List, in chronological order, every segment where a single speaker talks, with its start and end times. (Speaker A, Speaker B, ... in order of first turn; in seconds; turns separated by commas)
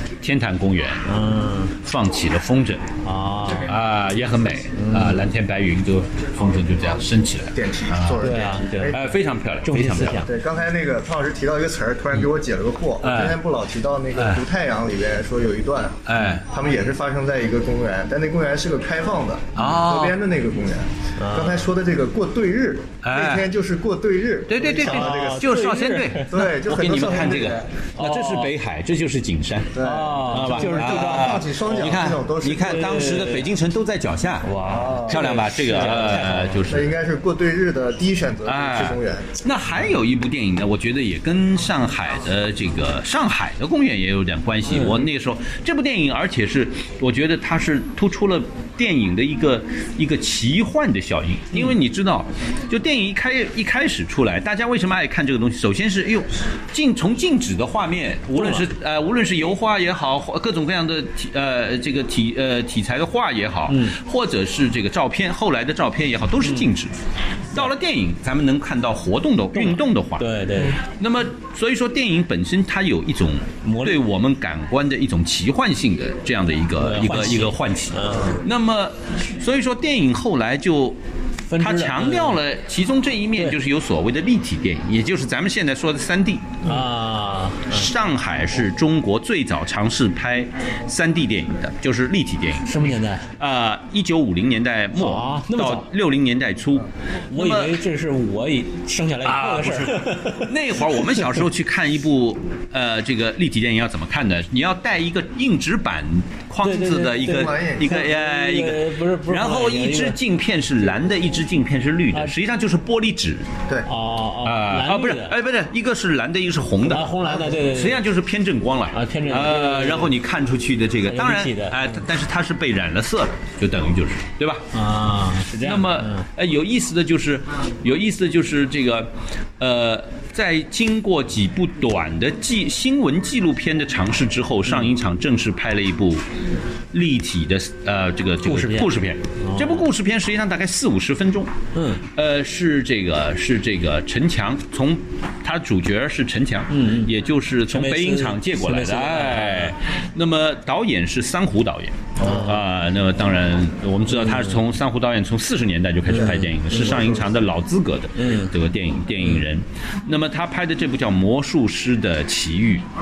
Speaker A: 0.2-1.0, Speaker B: 1.1-1.8, Speaker A: 1.8-2.9, Speaker B: 3.0-3.7, Speaker A: 3.6-8.4, Speaker B: 4.8-5.2, Speaker C: 7.5-9.0, Speaker B: 8.2-9.0, Speaker A: 8.9-10.3, Speaker B: 9.6-10.3, Speaker C: 10.2-25.6, Speaker A: 13.0-13.4, Speaker A: 14.2-14.4, Speaker A: 16.1-16.4, Speaker A: 19.6-20.2, Speaker B: 21.2-21.7, Speaker A: 23.0-23.5, Speaker A: 24.5-29.8, Speaker B: 24.8-26.3, Speaker C: 26.3-27.7, Speaker B: 28.0-28.5, Speaker C: 29.8-33.0, Speaker B: 29.8-31.5, Speaker A: 30.3-34.5, Speaker B: 32.5-33.5, Speaker B: 34.4-36.6, Speaker C: 34.7-39.3, Speaker A: 35.0-36.9, Speaker A: 38.5-67.0, Speaker B: 44.7-45.0, Speaker B: 58.4-58.7, Speaker B: 63.7-64.0, Speaker A: 67.5-81.0, Speaker B: 69.5-70.8, Speaker B: 73.6-74.0, Speaker B: 76.8-78.4, Speaker B: 81.5-82.4, Speaker A: 81.6-86.7, Speaker B: 86.6-87.9, Speaker A: 87.7-97.8, Speaker B: 92.7-93.3, Speaker B: 95.0-95.9, Speaker B: 97.3-101.4, Speaker A: 99.2-113.5, Speaker B: 106.6-110.2, Speaker C: 107.2-108.0, Speaker B: 113.9-115.4, Speaker A: 114.4-124.7, Speaker B: 116.8-118.0, Speaker B: 118.9-120.1, Speaker B: 121.1-122.0, Speaker B: 124.7-126.3, Speaker A: 125.6-136.2, Speaker A: 136.9-141.5, Speaker B: 138.4-139.9, Speaker B: 141.8-142.0, Speaker A: 142.1-162.9, Speaker B: 146.7-147.1, Speaker B: 147.7-149.7, Speaker B: 152.2-152.6, Speaker C: 152.2-152.5, Speaker B: 154.1-154.6, Speaker B: 156.1-157.2, Speaker C: 156.3-157.2, Speaker B: 158.2-158.5